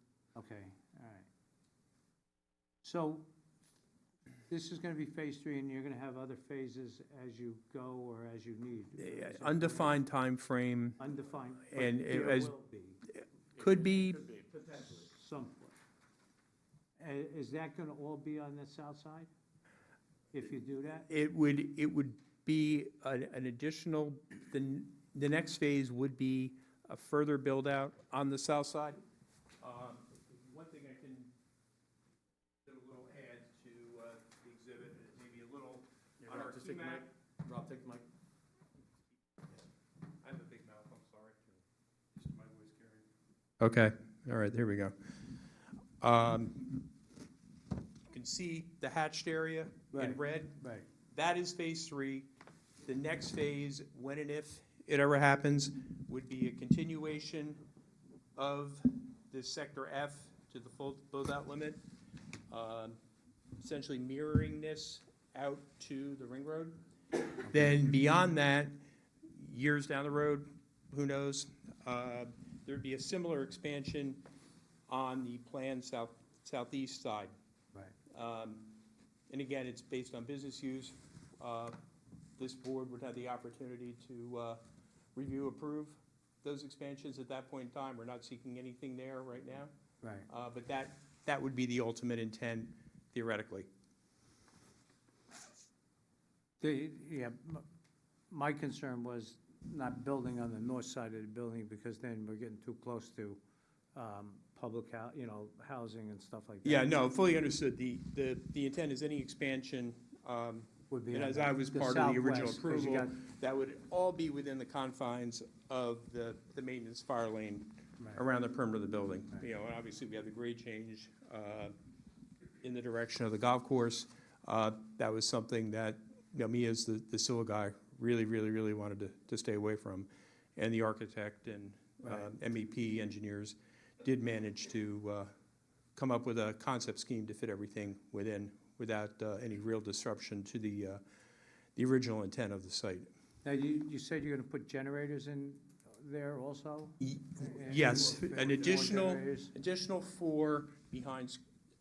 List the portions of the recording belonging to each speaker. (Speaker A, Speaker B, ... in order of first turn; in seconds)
Speaker A: 0.3-1.3, 2.8-3.3, 4.5-10.0, 11.0-13.0, 14.7-15.8, 17.0-19.3, 20.3-21.1, 49.9-50.9, 67.5-67.8, 90.0-90.3, 96.6-97.7, 98.3-103.4, 103.9-106.9, 110.9-113.2, 143.4-149.5
Speaker B: 9.0-11.0, 11.7-12.5, 13.1-14.2, 21.1-29.0, 29.6-31.3, 32.6-37.1, 40.2-41.6, 42.4-43.0, 43.6-44.9, 46.0-46.8, 48.1-50.6, 51.1-52.3, 52.8-57.6, 58.4-61.8, 62.5-63.0, 63.6-66.8, 67.4-68.8, 69.3-74.2, 74.9-77.3, 78.1-78.7, 79.3-81.8, 82.4-84.6, 85.1-89.7, 90.3-93.7, 106.6-121.7, 122.6-135.3, 135.9-141.0, 141.8-143.1, 147.0-151.4
Speaker C: 13.5-15.0, 36.3-38.0